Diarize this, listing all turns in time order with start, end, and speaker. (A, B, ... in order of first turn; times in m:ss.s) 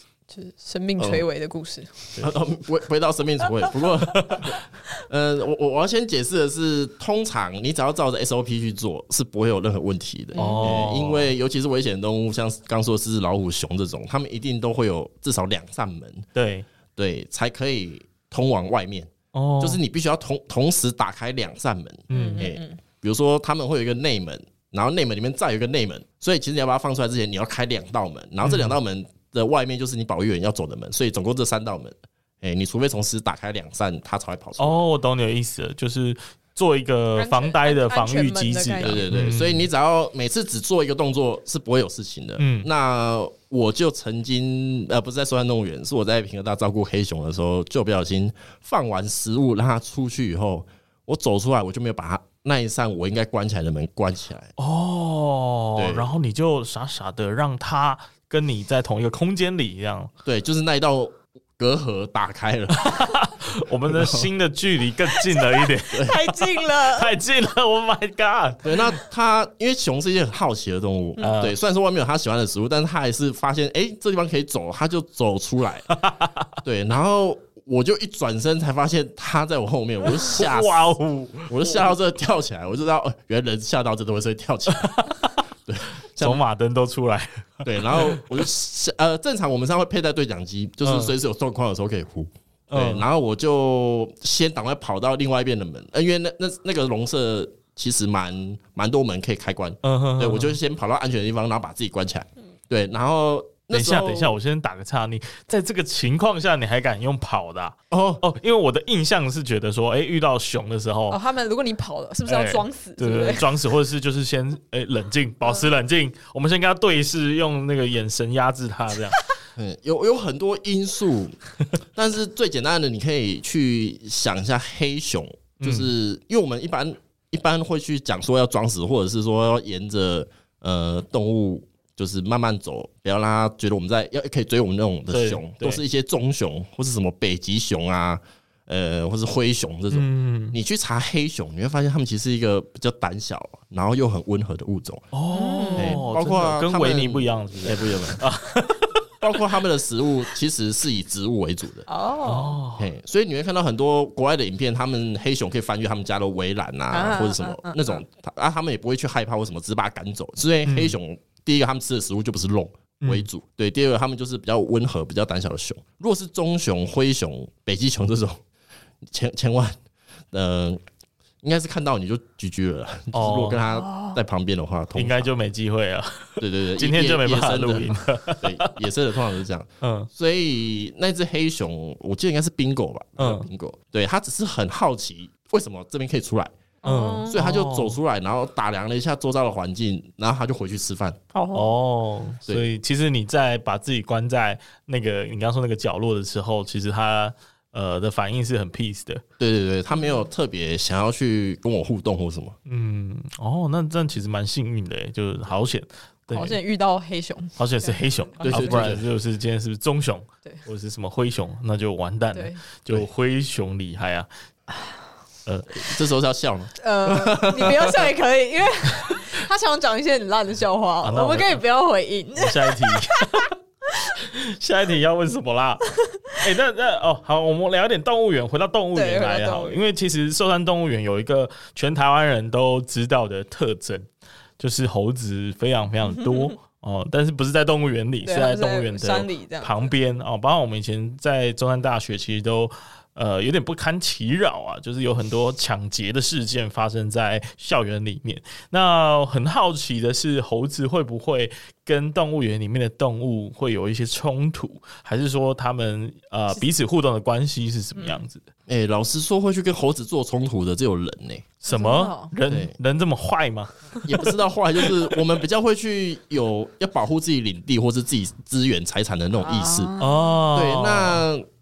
0:00.3-0:02.1 A
0:01.0-0:01.2 B
0:02.2-0:16.3 B
0:04.1-0:04.5 C
0:10.4-0:10.8 A
0:10.4-0:11.3 C
0:16.4-0:16.7 C
0:17.0-0:34.8 B
0:19.3-0:19.8 C
0:22.1-0:22.5 C
0:22.1-0:22.8 A
0:28.4-0:28.8 C
0:34.6-0:39.7 C
0:37.2-0:39.1 A
0:38.8-0:54.5 B
0:42.4-0:42.7 C
0:54.6-1:00.1 C
0:55.8-0:56.1 B
1:00.2-1:03.0 B
1:02.7-1:09.0 C
1:03.9-1:04.3 B
1:05.4-1:07.1 A
1:08.6-1:15.9 B
1:11.2-1:11.6 C
1:15.9-1:16.5 C
1:16.6-1:20.9 B
1:20.2-1:21.9 C
1:21.5-1:24.9 B
1:24.7-1:25.4 C
1:25.7-1:26.4 B
1:26.2-1:28.3 C
1:27.6-1:44.3 B
1:30.8-1:31.1 C
1:32.7-1:33.1 C
1:39.8-1:40.6 C
1:43.7-1:51.2 C
1:47.9-1:48.2 B
1:51.1-1:53.5 A
1:52.3-1:59.3 C
1:59.6-2:01.4 B
2:02.0-2:25.1 B
2:05.6-2:05.9 C
2:15.1-2:15.8 C
2:19.9-2:20.6 C
2:25.1-2:29.0 C
2:25.3-2:26.0 A
2:25.8-2:28.2 B
2:29.2-2:31.9 B
2:31.9-2:32.6 A
2:32.2-2:32.9 C
2:32.8-2:48.4 B
2:36.9-2:38.0 A
2:40.6-2:41.0 C
2:43.0-2:43.3 C
2:49.0-2:49.8 B
2:50.3-2:50.8 B
2:51.4-2:55.3 B
2:53.1-2:53.6 C
2:53.7-2:54.2 A
2:55.0-2:58.8 C
2:56.4-3:06.5 B
2:59.8-3:00.1 C
3:03.2-3:03.5 C
3:06.8-3:07.3 A
3:06.8-3:08.0 C
3:07.3-3:11.2 B
3:11.3-3:11.7 A
3:11.5-3:19.2 C
3:19.4-3:22.6 B
3:22.7-3:26.6 C
3:26.3-3:28.8 A
3:27.6-3:34.3 C
3:28.4-3:29.0 B
3:32.3-3:32.6 A
3:35.5-3:35.8 C
3:35.7-3:38.1 B
3:36.8-3:43.5 A
3:41.0-3:41.6 C
3:42.4-3:43.5 C
3:44.1-3:54.1 C
3:48.9-3:49.8 A
3:54.6-4:18.5 C
3:56.2-3:56.5 A
3:58.2-3:59.9 A
4:18.7-4:21.5 B
4:21.6-4:24.3 C
4:21.7-4:22.3 A
4:22.5-4:22.8 B
4:24.0-4:29.9 B
4:29.4-4:30.4 A
4:30.0-4:31.2 C
4:30.5-4:31.5 B